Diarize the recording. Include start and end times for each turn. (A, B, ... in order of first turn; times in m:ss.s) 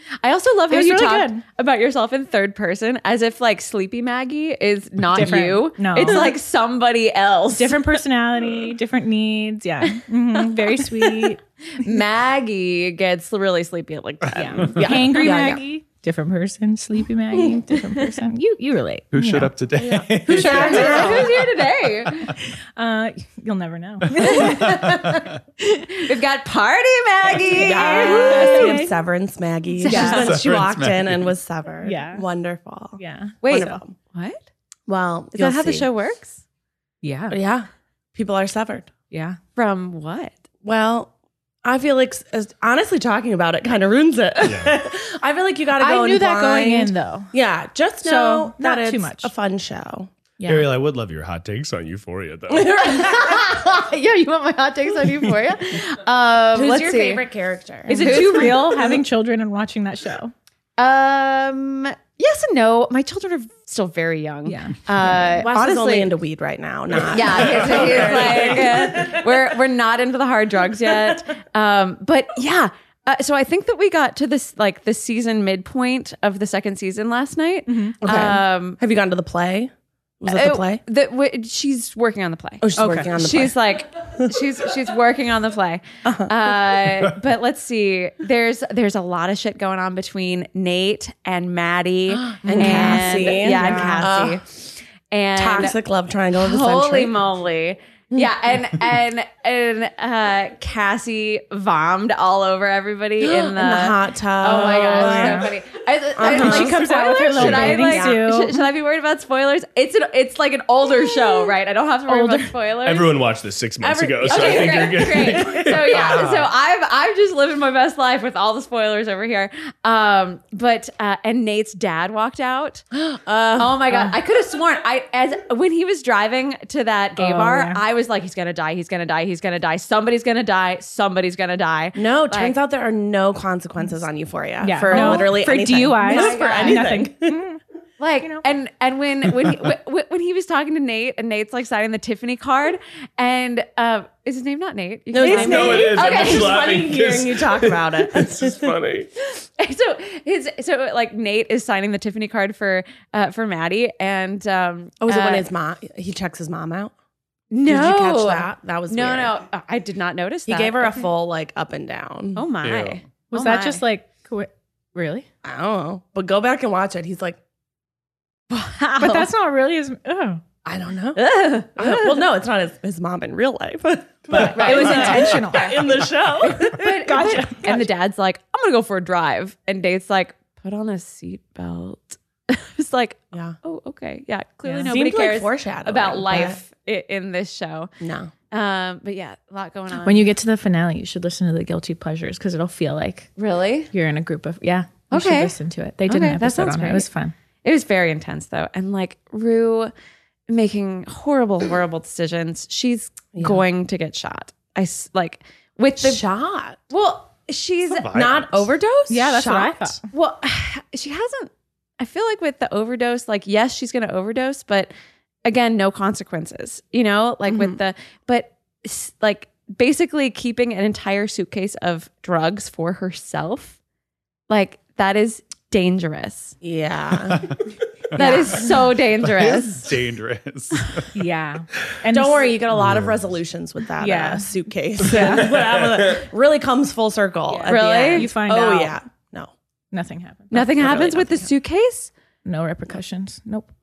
0:00.2-0:08.0 A
0:00.7-0:01.4 B
0:05.1-0:06.3 B
0:07.5-0:11.4 B
0:09.8-0:14.9 A
0:14.3-0:19.5 B
0:14.6-0:15.6 C
0:19.1-0:22.3 D
0:19.8-0:21.3 C
0:20.3-0:21.2 B
0:20.4-0:22.3 A
0:22.2-0:25.0 B
0:24.1-0:25.4 D
0:24.3-0:25.3 A
0:25.6-0:26.0 B
0:25.9-0:28.8 A
0:27.5-0:29.0 B
0:27.6-0:33.9 C
0:29.8-0:30.2 B
0:29.8-0:30.3 A
0:30.0-0:31.3 D
0:31.8-0:32.2 B
0:33.0-0:33.8 B
0:33.4-0:34.4 A
0:34.9-0:35.9 C
0:35.3-0:36.4 A
0:37.0-0:37.4 B
0:37.3-0:38.9 C
0:39.1-0:39.4 B
0:39.6-0:40.4 A
0:40.6-0:41.1 C
0:41.6-0:50.1 C
0:44.4-0:44.8 E
0:45.8-0:47.3 B
0:48.0-0:49.3 B
0:50.4-0:50.7 B
0:50.4-0:52.9 E
0:52.5-0:53.6 C
0:53.7-0:57.2 A
0:56.5-0:58.8 C
0:57.9-0:58.9 A
0:57.9-1:00.3 B
1:00.8-1:06.1 A
1:04.4-1:04.8 B
1:05.0-1:09.4 C
1:07.1-1:18.8 A
1:07.6-1:07.9 D
1:17.7-1:18.0 B
1:18.0-1:20.8 C
1:20.3-1:35.8 A
1:22.6-1:23.6 C
1:22.8-1:23.1 B
1:26.0-1:26.3 C
1:32.1-1:34.4 C
1:32.4-1:34.1 B
1:35.4-1:37.1 C
1:36.3-1:53.1 A
1:43.2-1:45.5 C
1:44.8-1:45.5 B
1:46.2-1:48.2 C
1:46.3-1:48.6 B
1:52.1-1:52.5 B
1:52.8-1:56.2 E
1:53.8-2:02.8 A
1:54.2-1:54.7 C
1:55.9-1:56.5 D
2:02.9-2:04.0 C
2:03.6-2:12.6 A
2:07.2-2:07.8 B
2:12.0-2:17.4 C
2:14.6-2:17.6 B
2:14.9-2:15.4 A
2:16.0-2:16.8 A
2:18.0-2:26.7 A
2:18.2-2:18.4 B
2:25.1-2:28.7 C
2:25.2-2:29.1 E
2:29.2-2:35.5 A
2:35.0-2:36.9 C
2:37.5-2:41.1 A
2:37.6-2:39.3 C
2:40.5-2:42.4 C
2:42.3-2:43.8 A
2:42.6-2:43.0 D
2:43.3-2:45.3 B
2:45.4-2:47.4 C
2:48.5-2:49.3 A
2:49.0-2:50.4 B
2:50.6-2:51.2 C
2:51.1-2:52.2 A
2:51.8-2:57.6 C
2:54.3-2:55.7 B
2:54.3-2:55.9 A
2:56.7-3:07.9 A
2:57.0-2:57.8 B
3:04.6-3:04.9 B
3:04.8-3:06.6 C
3:08.0-3:08.3 C
3:08.5-3:10.3 A
3:10.0-3:13.3 B
3:13.4-3:13.9 A
3:13.9-3:17.3 B
3:15.1-3:15.5 A
3:16.0-3:17.1 A
3:17.6-3:19.9 A
3:20.5-3:26.2 A
3:23.3-3:23.6 C
3:26.0-3:26.8 C
3:26.9-3:28.1 A
3:27.9-3:28.7 D
3:28.0-3:30.0 C
3:29.1-3:30.0 B
3:30.1-3:34.9 A
3:35.4-3:43.8 A
3:37.5-3:37.8 C
3:44.5-3:46.6 A
3:46.6-3:47.5 C
3:47.2-3:51.1 D
3:48.2-3:49.9 A
3:48.2-3:48.6 C
3:51.1-3:52.5 B
3:52.1-3:59.5 C
3:52.7-3:53.3 D
3:54.0-3:54.5 B
3:55.1-3:55.4 B
3:55.1-3:56.2 E
3:57.5-3:58.9 B
3:57.6-3:58.3 A
3:59.9-4:00.9 B
4:00.5-4:02.1 A
4:00.5-4:01.5 C
4:02.4-4:03.7 B